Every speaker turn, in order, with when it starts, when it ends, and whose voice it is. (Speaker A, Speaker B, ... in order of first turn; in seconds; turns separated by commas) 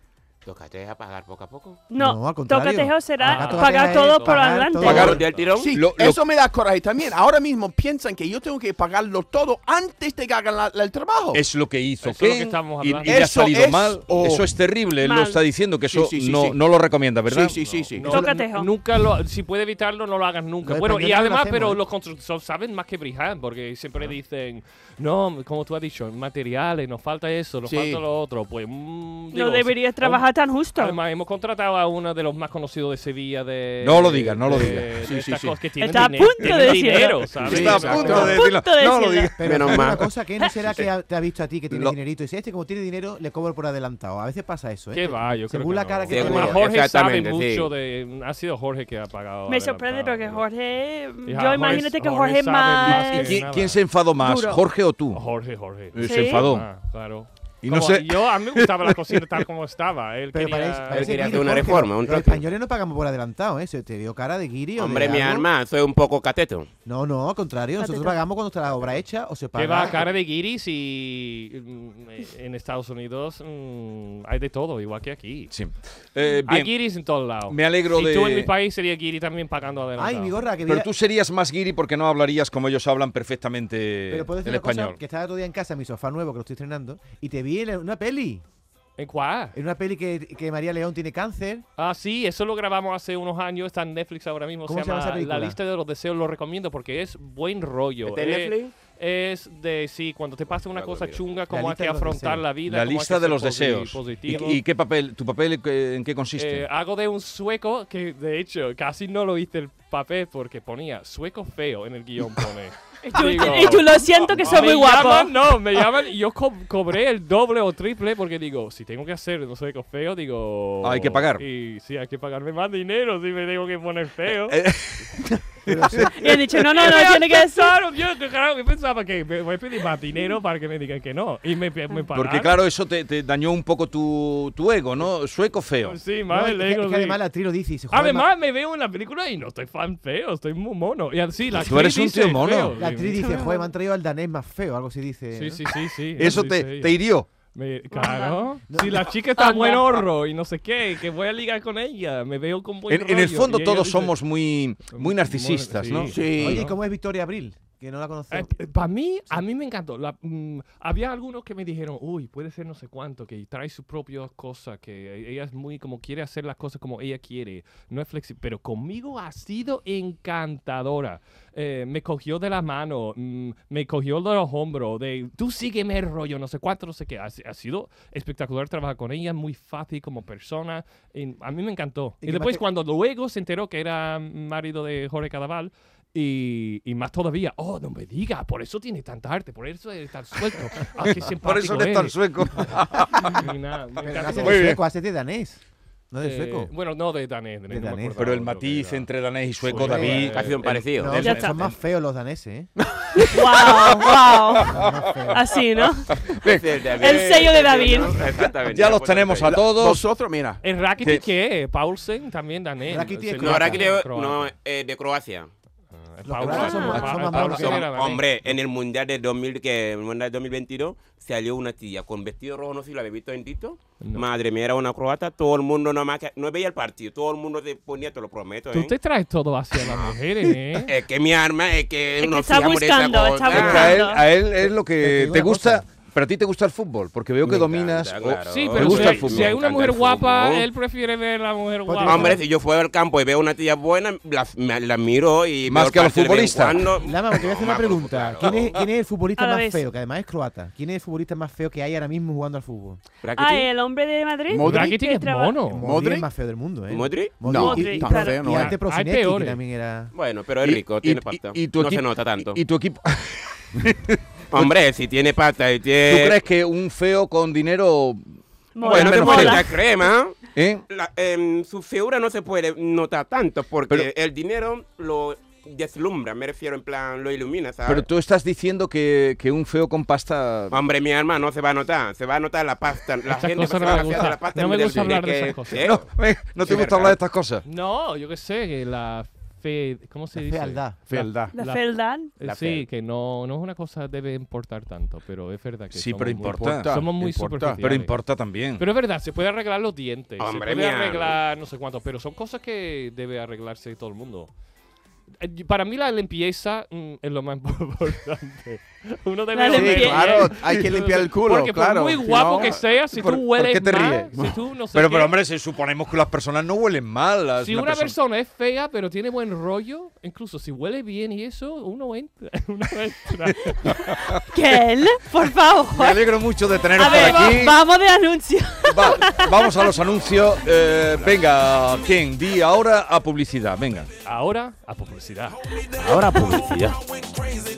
Speaker A: 0.5-1.8, Speaker B: 1.9-5.2, Speaker C: 2.0-5.2, Speaker D: 3.2-4.5, Speaker A: 4.8-5.7, Speaker E: 4.9-5.2, Speaker F: 4.9-11.4, Speaker E: 5.7-6.2, Speaker E: 11.3-17.6, Speaker D: 12.0-13.3, Speaker F: 13.1-14.5, Speaker B: 15.0-15.4, Speaker F: 15.9-16.6, Speaker F: 17.3-18.2, Speaker D: 17.7-38.3, Speaker B: 18.0-18.7, Speaker C: 20.6-21.8, Speaker F: 27.6-28.0, Speaker B: 29.3-31.0, Speaker E: 33.8-34.9, Speaker F: 35.0-35.6, Speaker B: 35.8-39.3, Speaker F: 37.4-38.4, Speaker E: 37.4-39.9, Speaker C: 39.4-46.6, Speaker A: 39.4-40.1, Speaker D: 44.9-50.4, Speaker A: 46.1-47.7, Speaker B: 49.5-53.4, Speaker D: 51.3-53.8, Speaker E: 52.9-55.2, Speaker B: 54.1-54.6, Speaker D: 55.1-61.3, Speaker E: 55.9-56.7, Speaker B: 56.0-56.5, Speaker E: 57.6-59.2, Speaker C: 60.3-65.5, Speaker A: 60.9-62.4, Speaker A: 64.8-66.7, Speaker C: 66.9-70.0, Speaker B: 67.8-68.1, Speaker D: 69.6-75.5, Speaker E: 75.5-78.5, Speaker D: 76.5-80.4, Speaker C: 80.0-80.9, Speaker E: 80.7-85.0, Speaker C: 84.1-88.4, Speaker D: 89.0-89.6, Speaker C: 89.5-91.7, Speaker D: 91.8-104.6, Speaker C: 94.7-95.6, Speaker A: 98.0-98.8, Speaker A: 100.7-101.2, Speaker C: 101.5-102.5, Speaker E: 102.7-106.7, Speaker D: 106.3-124.6, Speaker B: 113.0-115.3, Speaker E: 120.8-121.4, Speaker E: 124.5-126.1, Speaker C: 125.7-126.1, Speaker B: 126.1-127.7, Speaker D: 126.7-132.6, Speaker E: 132.1-136.0, Speaker D: 135.8-137.2, Speaker C: 136.3-138.3, Speaker D: 137.9-143.3, Speaker E: 141.6-142.8, Speaker C: 142.8-145.6, Speaker B: 143.2-143.6, Speaker D: 145.3-147.0, Speaker E: 146.2-147.3, Speaker D: 147.5-154.2, Speaker B: 147.9-148.4, Speaker C: 148.7-149.1, Speaker B: 149.4-150.0, Speaker E: 152.9-156.2, Speaker D: 154.9-156.8, Speaker F: 156.1-156.7, Speaker C: 156.3-158.5, Speaker D: 158.3-194.7, Speaker C: 182.2-182.6, Speaker E: 191.0-193.5, Speaker C: 194.0-196.7, Speaker E: 194.4-194.8, Speaker D: 196.2-199.1, Speaker C: 197.7-198.2, Speaker E: 198.2-201.7, Speaker D: 199.6-200.6, Speaker C: 199.7-200.3, Speaker A: 200.3-201.2, Speaker C: 200.9-202.7, Speaker B: 201.2-201.6, Speaker F: 202.8-203.6, Speaker B: 203.2-206.1, Speaker E: 203.6-205.1, Speaker C: 204.7-205.4, Speaker E: 206.1-206.8, Speaker A: 206.3-209.6, Speaker B: 206.9-208.2, Speaker E: 208.6-210.1, Speaker F: 209.4-210.6, Speaker D: 210.6-214.5, Speaker C: 212.9-214.0, Speaker A: 213.3-215.5, Speaker D: 216.0-218.2, Speaker C: 216.2-218.1, Speaker A: 216.4-228.9, Speaker B: 216.5-217.1, Speaker D: 224.0-224.3, Speaker D: 228.7-230.9, Speaker A: 229.8-234.0, Speaker B: 232.2-234.3, Speaker E: 233.5-239.6, Speaker C: 234.5-235.8, Speaker A: 237.4-240.7, Speaker D: 238.5-242.4, Speaker C: 241.8-242.4, Speaker A: 242.1-248.7, Speaker E: 245.7-246.8, Speaker C: 247.0-253.0, Speaker B: 249.4-249.8, Speaker A: 253.2-253.7, Speaker B: 253.4-255.6, Speaker F: 254.5-255.0, Speaker D: 254.6-255.8, Speaker C: 255.7-260.1, Speaker F: 255.8-256.3, Speaker A: 256.9-257.4, Speaker F: 257.4-258.7, Speaker B: 257.5-258.5, Speaker D: 258.5-259.6, Speaker A: 260.1-262.6, Speaker E: 260.6-264.7, Speaker A: 264.5-266.4, Speaker E: 266.1-268.2, Speaker B: 268.8-269.8, Speaker E: 268.8-269.6, Speaker A: 268.8-278.1, Speaker E: 270.6-270.8, Speaker E: 277.9-280.8, Speaker A: 280.7-287.2, Speaker D: 283.3-285.9, Speaker E: 285.8-287.6, Speaker D: 287.6-291.0, Speaker C: 290.3-291.3, Speaker F: 291.1-291.5, Speaker D: 291.5-298.2, Speaker B: 291.6-292.3, Speaker A: 292.4-292.8, Speaker E: 295.9-297.1, Speaker F: 296.4-297.8, Speaker E: 297.8-298.8, Speaker D: 298.8-304.5, Speaker A: 300.4-301.4, Speaker D: 305.4-315.4, Speaker B: 309.5-310.5, Speaker F: 309.7-312.8, Speaker E: 313.1-314.3, Speaker E: 314.9-318.1, Speaker D: 317.6-324.1, Speaker E: 323.8-324.5, Speaker B: 324.5-326.4, Speaker E: 325.9-327.8, Speaker B: 326.9-330.0, Speaker E: 328.9-334.1, Speaker D: 334.2-335.6, Speaker A: 336.0-337.0, Speaker B: 336.3-336.6